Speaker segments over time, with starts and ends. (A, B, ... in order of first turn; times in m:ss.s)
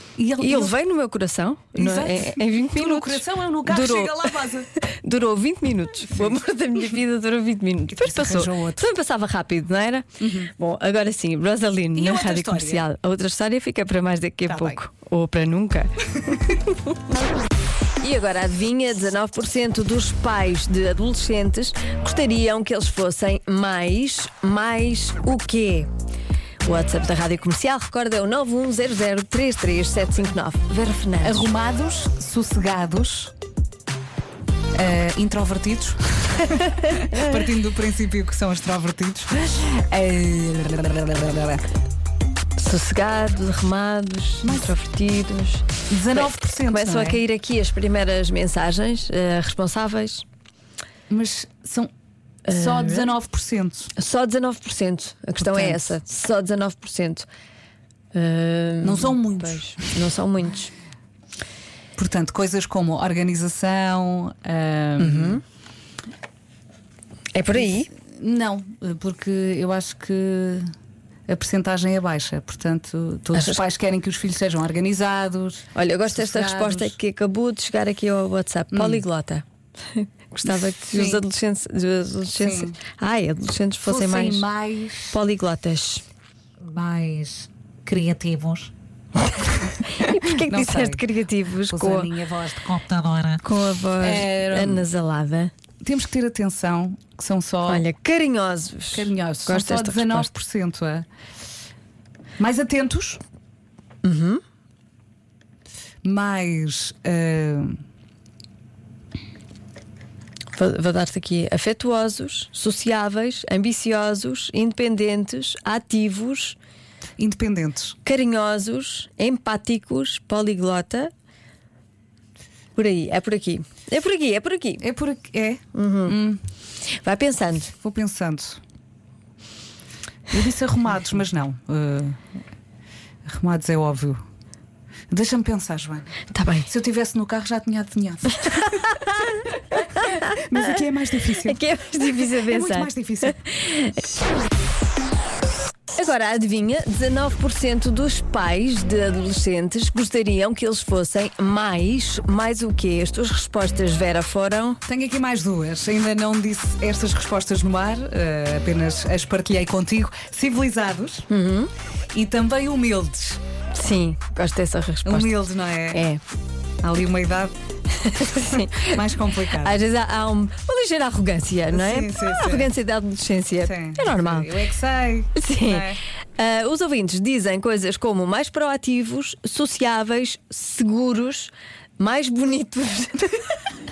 0:00.2-0:00.8 A
0:00.4-0:16.5 B
0:01.7-0:04.7 A
0:06.1-0:06.4 A
0:07.9-0:08.9 A
0:10.2-0:10.5 A
0:11.9-0:12.8 A
0:14.5-0:14.8 A
0:18.0-0:25.9 B
0:26.6-0:31.5 B
0:31.2-0:33.3 A
0:34.7-0:41.6 A
0:36.9-0:37.2 B
0:42.6-0:50.2 B
0:44.4-0:44.7 A
0:45.9-0:47.2 A
0:51.1-0:51.9 A
0:52.5-0:53.1 B
0:52.5-0:53.9 A
0:54.0-0:57.3 B
0:55.4-0:55.8 A
0:58.1-1:00.7 B
0:58.8-0:59.9 A
1:02.0-1:05.4 A
1:05.0-1:05.4 B
1:07.3-1:07.9 B
1:07.6-1:10.7 A
1:11.3-1:17.0 A
1:13.3-1:13.6 B
1:15.7-1:24.4 B
1:18.7-1:19.0 A
1:20.4-1:21.2 A
1:22.4-1:22.8 A
1:23.8-1:25.2 A
1:25.1-1:26.0 B
1:26.6-1:28.7 A
1:29.8-1:32.1 B
1:30.0-1:31.0 A
1:31.7-1:33.4 A
1:33.4-1:35.5 B
1:34.0-1:34.9 A
1:35.8-1:37.8 A
1:37.7-1:40.3 B
1:38.9-1:41.1 A
1:42.4-1:43.2 A
1:44.0-1:44.4 B
1:46.0-1:47.8 A
1:50.5-1:56.6 B
1:57.2-1:58.0 A
1:58.0-2:01.1 B
2:02.8-2:04.8 B
2:04.8-2:06.4 A
2:05.7-2:06.2 B
2:07.0-2:07.7 B
2:07.8-2:08.6 A
2:10.3-2:12.2 A
2:13.2-2:14.2 A
2:15.1-2:18.9 A
2:16.3-2:16.7 B
2:18.5-2:20.4 B
2:20.3-2:23.4 A
2:21.4-2:24.1 B
2:25.9-2:34.8 B
2:34.8-2:41.3 A
2:41.3-2:41.7 B
2:42.1-2:43.4 A
2:43.7-2:46.2 B
2:45.0-2:46.0 A
2:46.8-2:47.5 A
2:47.9-2:49.0 B
2:48.4-2:49.8 A
2:49.5-2:54.5 B
2:51.7-2:52.7 A
2:53.6-2:56.0 A
2:55.3-3:03.4 B